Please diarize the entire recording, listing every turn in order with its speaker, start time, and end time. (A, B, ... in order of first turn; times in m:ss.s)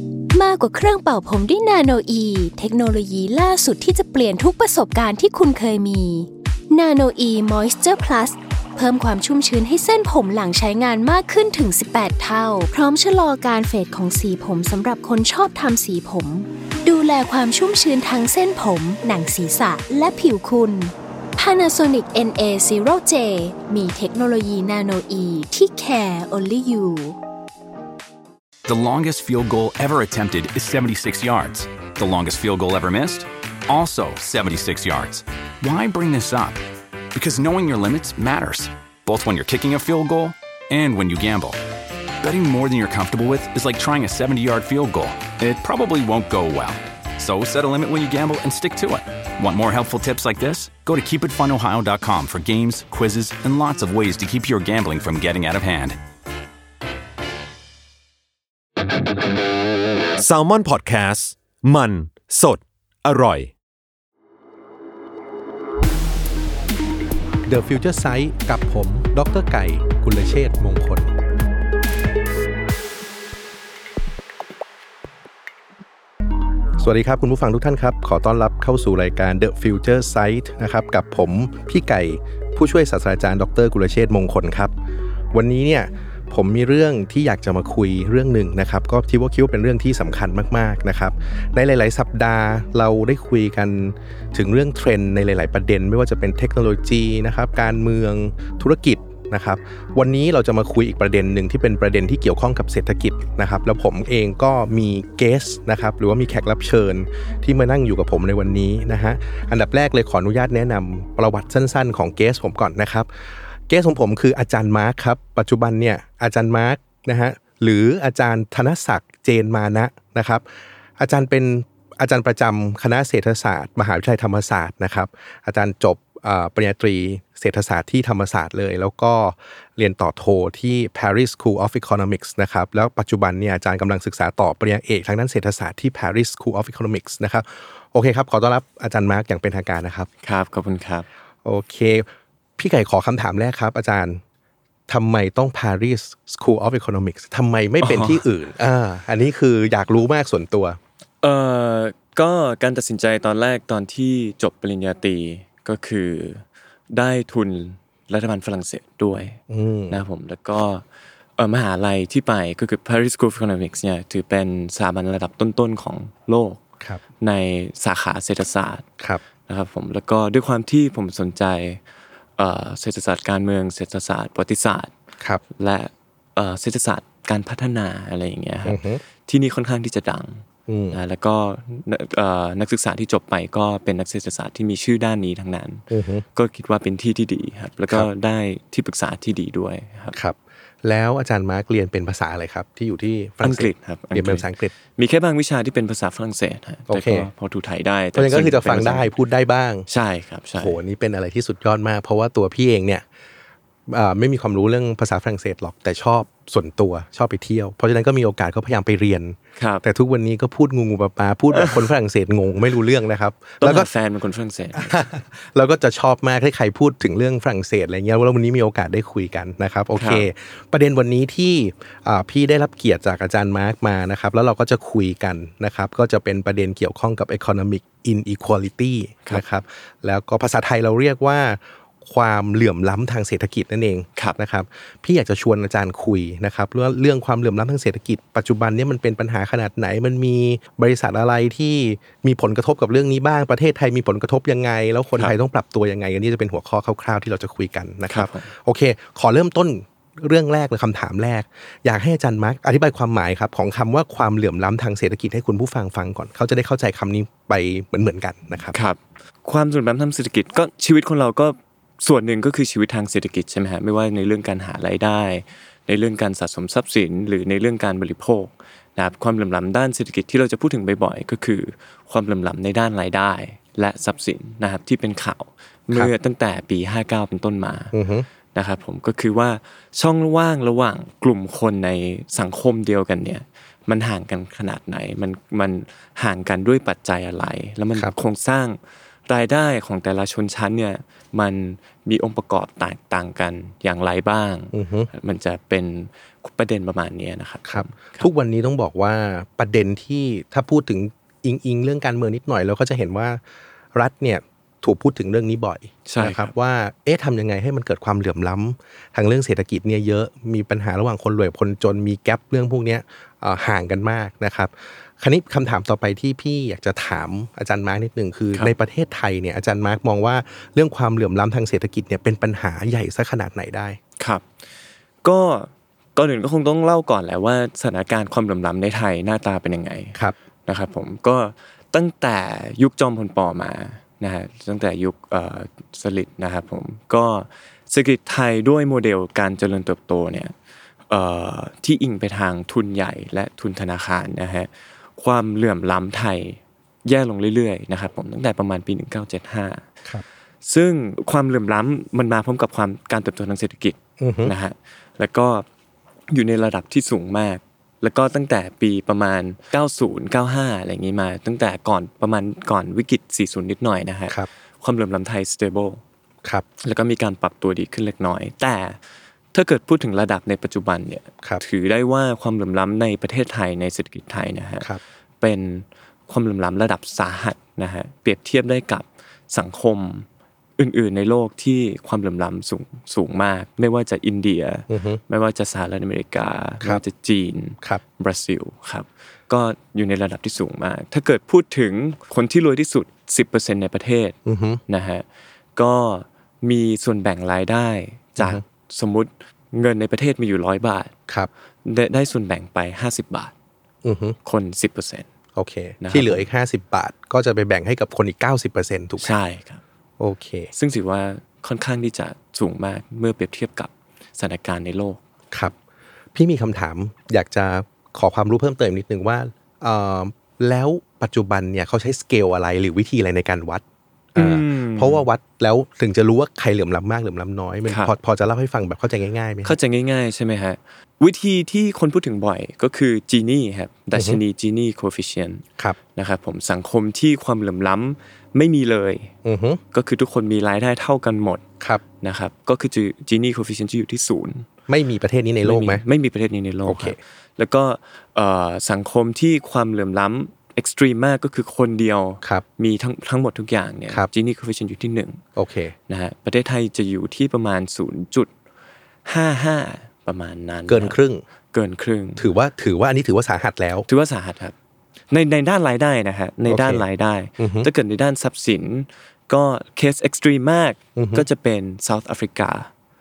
0:00.3-0:27.2 A
0:28.6-0:36.6 B
0:37.1-0:41.6 B
0:42.2-0:56.0 B
1:00.2-1:03.5 C
1:07.4-1:11.1 D
1:16.8-1:24.7 D
1:25.3-2:00.4 D
2:01.0-2:20.1 D
2:20.2-2:21.1 E
2:21.4-2:24.2 D
2:24.9-2:30.8 D
2:27.8-2:28.2 E
2:31.2-2:39.4 E
2:39.5-2:40.0 D
2:39.9-2:40.8 E
2:41.4-2:46.6 E
2:47.2-2:48.8 E
2:49.5-2:51.8 E
2:52.4-2:54.9 E
2:55.6-3:05.8 E
2:58.6-2:59.0 D
3:00.7-3:01.0 D
3:05.9-3:06.2 D
3:06.3-3:10.1 E
3:10.1-3:14.7 D
3:13.4-3:19.1 E
3:16.9-3:17.3 D
3:18.1-3:19.8 D
3:19.9-3:20.8 E
3:20.6-3:23.0 D
3:23.9-3:33.9 D
3:29.6-3:29.8 E
3:31.5-3:31.8 E
3:33.6-3:35.1 E
3:34.8-4:18.8 D
3:40.0-3:40.2 E
4:08.1-4:08.5 E
4:18.7-4:37.9 E
4:37.9-4:38.2 D
4:38.5-4:58.3 E
4:54.7-4:55.1 D
4:57.7-5:03.4 D
5:03.9-5:24.0 D
5:06.0-5:06.5 E
5:24.2-5:24.4 E
5:25.2-5:40.5 E
5:41.1-5:49.9 E
5:50.6-5:55.6 E
5:54.2-5:54.5 D
5:56.3-6:06.0 E
6:06.8-6:09.0 E
6:09.5-6:14.9 E
6:15.4-6:35.2 E
6:24.9-6:25.2 D
6:34.4-6:34.8 D
6:35.8-6:41.1 E
6:41.8-6:43.5 E
6:44.0-6:44.4 D
6:44.4-6:45.3 E
6:45.6-6:49.4 D
6:46.0-6:46.5 E
6:49.2-6:49.8 E
6:50.2-6:50.7 D
6:50.7-6:55.2 E
6:56.3-7:03.8 D
7:04.3-7:05.2 E
7:04.3-7:09.8 D
7:07.9-7:08.1 E
7:09.6-7:19.3 E
7:14.1-7:14.4 D
7:19.4-7:19.8 D
7:19.9-7:21.6 E
7:22.2-7:24.7 E
7:24.9-7:26.0 D
7:25.6-7:35.4 E
7:26.8-7:27.2 D
7:35.6-7:35.9 D
7:36.1-7:38.5 E
7:39.2-7:41.2 E
7:40.9-7:41.4 D
7:41.7-7:42.5 E
7:42.4-7:44.1 D
7:44.1-7:44.7 E
7:45.3-7:52.9 E
7:46.7-7:47.0 D
7:47.6-7:47.9 D
7:51.2-7:51.4 D